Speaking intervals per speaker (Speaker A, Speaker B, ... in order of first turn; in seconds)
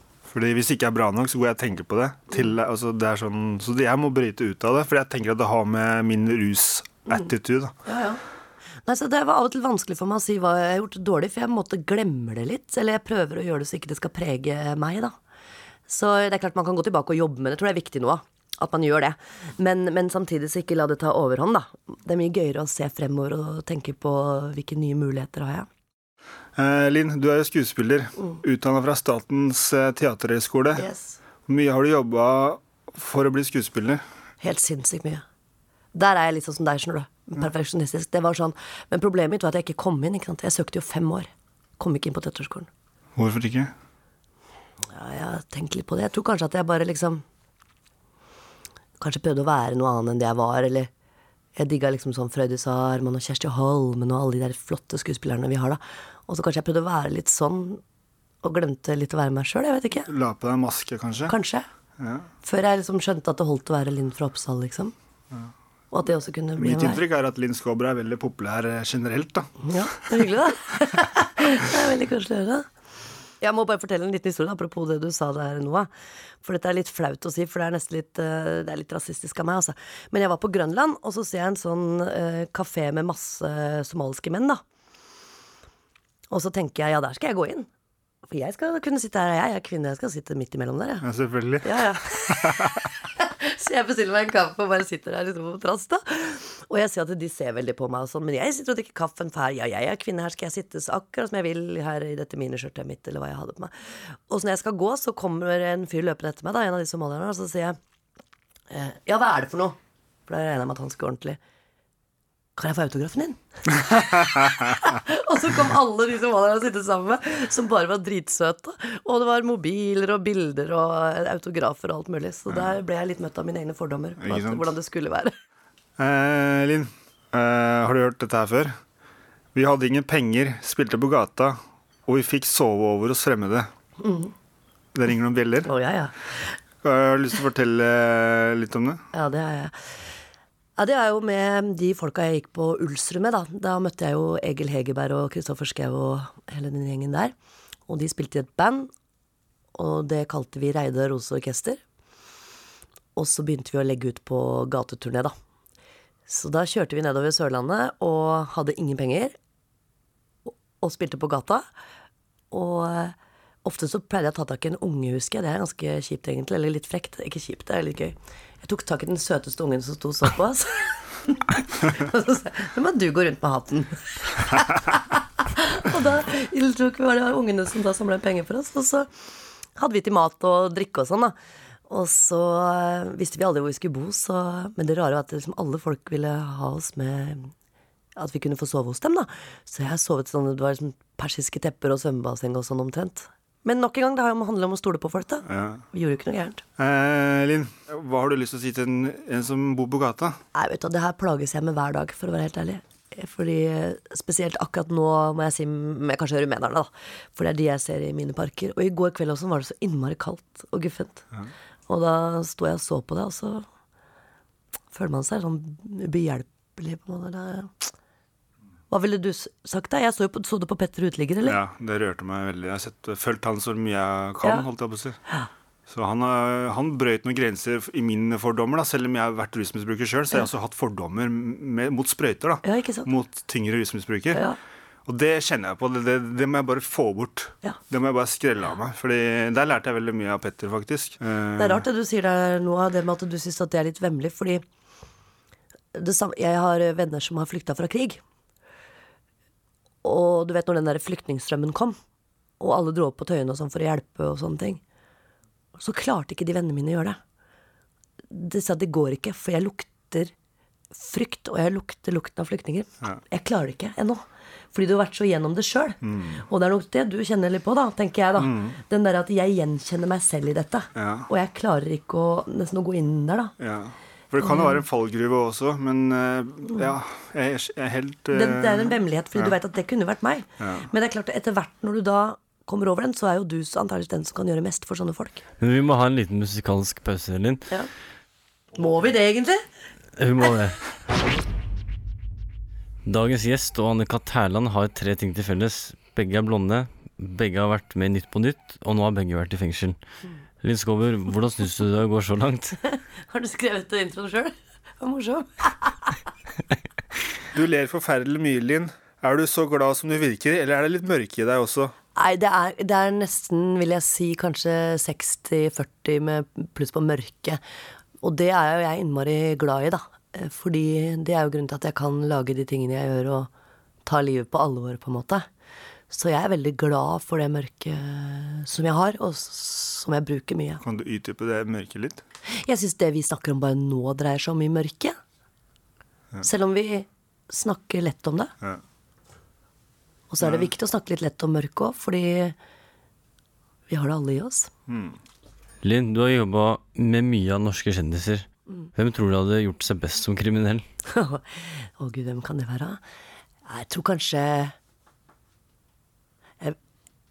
Speaker A: 0.3-7.7, 26.6-30.8, 31.5-34.0, 43.1-43.7, 60.0-61.3, 62.0-62.3, 66.5-69.5, 91.0-92.8, 124.2-124.7, 126.0-128.8, 129.5-133.7, 134.9-135.7, 136.8-139.0, 195.4-195.8, 196.8-200.4, 221.4-225.2, 225.9-234.4, 235.1-241.8, 266.0-266.4, 268.4-268.8, 270.9-271.3, 273.6-279.6, 280.6-280.9, 307.5-311.9, 330.8-332.2, 340.4-340.7, 344.9-345.2
Speaker B: 7.8-8.2, 8.8-15.1, 15.9-25.7, 30.8-31.2, 34.4-35.2, 35.9-42.7, 44.9-47.2, 49.0-50.9, 51.5-57.8, 58.4-60.1, 61.3-61.6, 62.4-64.9, 65.9-67.0, 69.6-72.7, 73.4-75.9, 76.4-84.6, 86.3-87.7, 88.3-91.0, 91.6-103.7, 104.3-107.8, 108.7-111.4, 112.6-125.3, 134.0-134.3, 135.6-136.6, 139.1-140.1, 140.8-147.3, 147.9-148.9, 149.7-151.8, 153.2-155.3, 156.3-159.3, 160.5-161.6, 162.5-175.0, 175.5-179.1, 179.8-181.3, 181.9-187.5, 188.2-196.6, 200.5-211.2, 211.9-213.7, 214.9-217.9, 218.9-221.6, 232.6-233.1, 234.3-234.6, 241.6-244.6, 245.9-248.2, 250.0-251.9, 252.6-254.8, 255.8-257.2, 258.3-260.3, 260.9-273.5, 274.4-274.8, 278.3-285.4, 288.7-289.6, 303.3-306.1, 312.1-317.6, 318.2-323.5, 324.1-325.4, 326.1-330.8, 332.6-335.2, 336.4-338.5, 340.3-342.6, 343.9-344.7, 351.1-353.0, 353.6-354.7
Speaker C: 285.6-287.7, 290.2-290.8, 293.0-300.0, 300.6-302.8, 345.8-350.8